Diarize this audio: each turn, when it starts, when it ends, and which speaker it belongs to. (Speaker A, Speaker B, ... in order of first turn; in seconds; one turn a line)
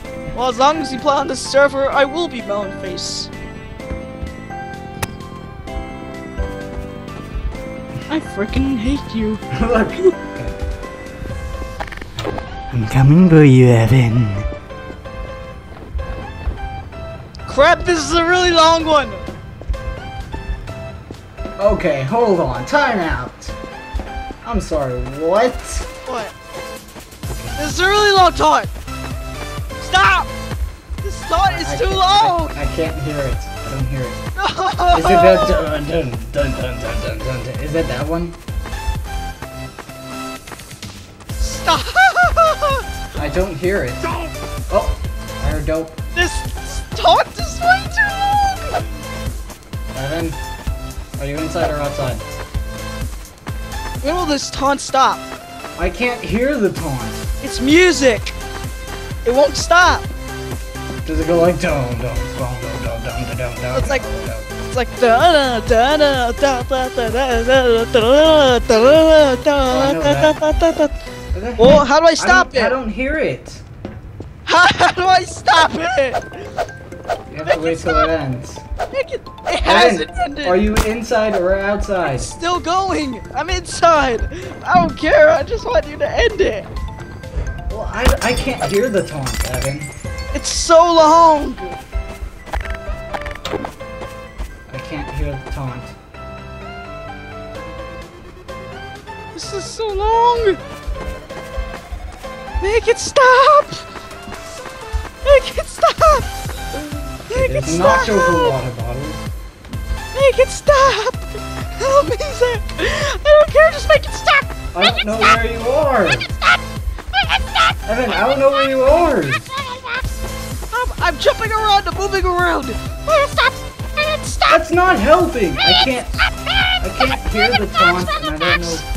Speaker A: 0.3-3.3
Speaker A: 8.1-9.4
Speaker B: 9.5-10.6
Speaker B: 12.7-14.5
Speaker A: 17.5-19.2
Speaker B: 21.6-23.6
Speaker B: 24.4-25.9
Speaker A: 26.1-26.3
Speaker B: 27.3-27.6
Speaker A: 27.6-28.7
Speaker A: 29.8-30.3
Speaker A: 31.0-32.6
Speaker B: 31.4-34.2
Speaker A: 34.4-35.6
Speaker B: 34.9-38.4
Speaker A: 41.4-42.8
Speaker B: 43.2-44.1
Speaker B: 44.7-46.0
Speaker A: 46.1-48.9
Speaker B: 49.9-50.4
Speaker B: 51.2-52.2
Speaker A: 54.0-55.2
Speaker B: 55.8-57.3
Speaker A: 57.4-58.4
Speaker A: 59.2-60.1
Speaker B: 61.0-64.5
Speaker A: 63.7-64.0
Speaker A: 64.7-71.0
Speaker B: 69.7-70.4
Speaker B: 71.3-73.6
Speaker A: 71.6-72.8
Speaker A: 74.5-76.5
Speaker B: 77.3-78.6
Speaker A: 77.5-78.1
Speaker A: 78.9-80.6
Speaker B: 79.6-82.3
Speaker A: 82.1-86.7
Speaker B: 87.7-89.9
Speaker A: 90.3-91.8
Speaker B: 94.7-95.9
Speaker A: 99.3-100.6
Speaker A: 102.6-103.8
Speaker A: 105.2-106.3
Speaker A: 107.3-108.5
Speaker B: 107.3-109.2
Speaker A: 110.1-115.3
Speaker B: 114.7-116.3
Speaker A: 117.1-117.8
Speaker B: 117.9-119.4
Speaker A: 119.6-120.0
Speaker A: 120.7-124.6
Speaker B: 124.5-126.2
Speaker A: 126.5-126.8
Speaker B: 126.8-128.8
Speaker A: 127.7-128.8